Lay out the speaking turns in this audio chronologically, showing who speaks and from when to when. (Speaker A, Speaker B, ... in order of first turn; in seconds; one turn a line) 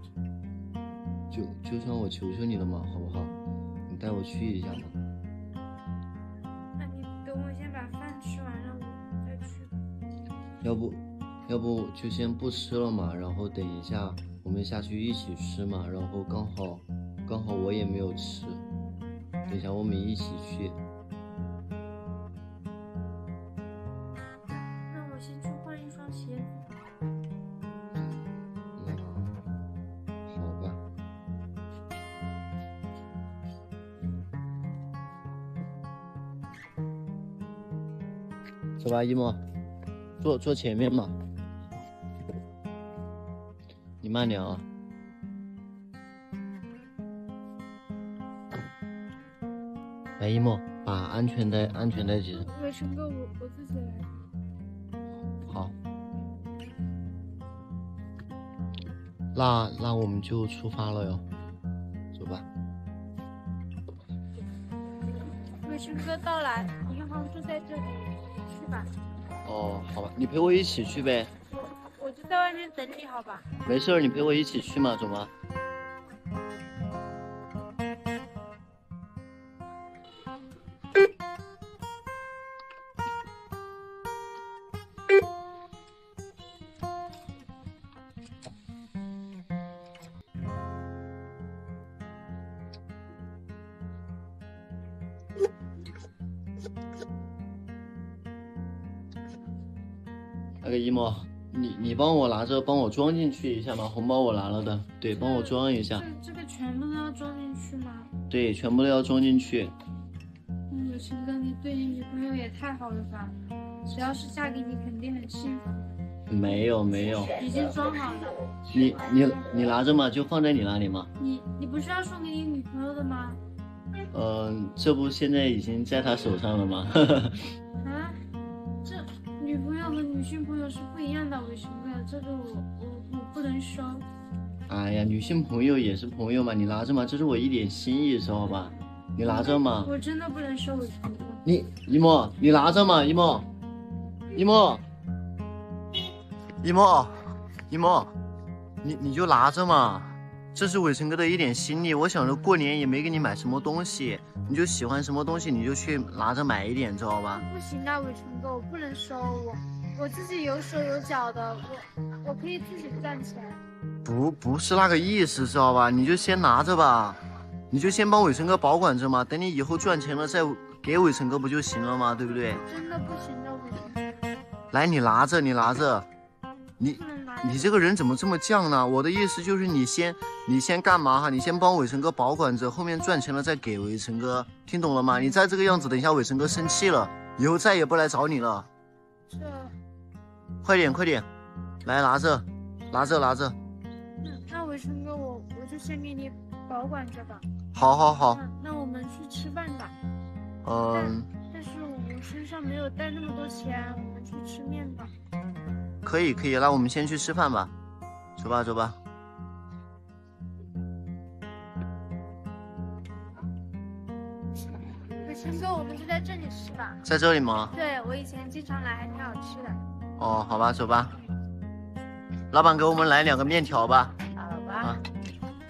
Speaker A: 1.3-3.3
Speaker A: 3.9-5.0
Speaker B: 6.8-9.8
Speaker A: 10.6-18.6
Speaker A: 19.5-20.8
Speaker B: 24.5-26.8
Speaker A: 27.9-29.4
Speaker A: 30.3-30.8
Speaker A: 38.8-39.4
Speaker A: 40.2-41.1
Speaker A: 44.0-44.6
Speaker A: 50.2-52.5
Speaker B: 52.3-54.1
Speaker A: 55.2-55.7
Speaker A: 59.4-61.2
Speaker A: 62.1-62.5
Speaker B: 65.6-68.9
Speaker A: 69.5-71.3
Speaker B: 72.0-73.5
Speaker A: 73.7-75.3
Speaker A: 100.6-106.1
Speaker B: 105.1-108.1
Speaker A: 108.3-109.7
Speaker B: 110.7-113.3
Speaker B: 113.9-115.9
Speaker A: 116.3-117.4
Speaker B: 117.4-118.4
Speaker A: 118.7-121.1
Speaker B: 121.2-123.4
Speaker A: 124.1-127.5
Speaker B: 127.8-128.2
Speaker B: 128.8-134.1
Speaker A: 134.7-139.9
Speaker B: 139.2-141.4
Speaker A: 141.4-143.5
Speaker A: 144.3-144.8
Speaker A: 146.6-148.1
Speaker A: 148.8-157.4
Speaker B: 157.3-163.6
Speaker A: 164.1-172.6
Speaker B: 172.6-174.2
Speaker A: 174.7-176.1
Speaker A: 176.8-188.7
Speaker B: 176.9-177.7
Speaker B: 189.3-189.7
Speaker A: 190.6-191.3
Speaker A: 191.8-193.6
Speaker B: 194.2-197.4
Speaker A: 197.7-198.4
Speaker B: 198.2-199.9
Speaker A: 200.6-201.3
Speaker B: 200.9-205.1
Speaker A: 206.0-207.7
Speaker A: 208.4-209.0
Speaker B: 215.2-217.0
Speaker A: 217.0-217.8
Speaker B: 217.7-219.8
Speaker A: 220.2-221.2
Speaker A: 222.5-224.2
Speaker B: 224.4-224.9
Speaker A: 224.8-225.1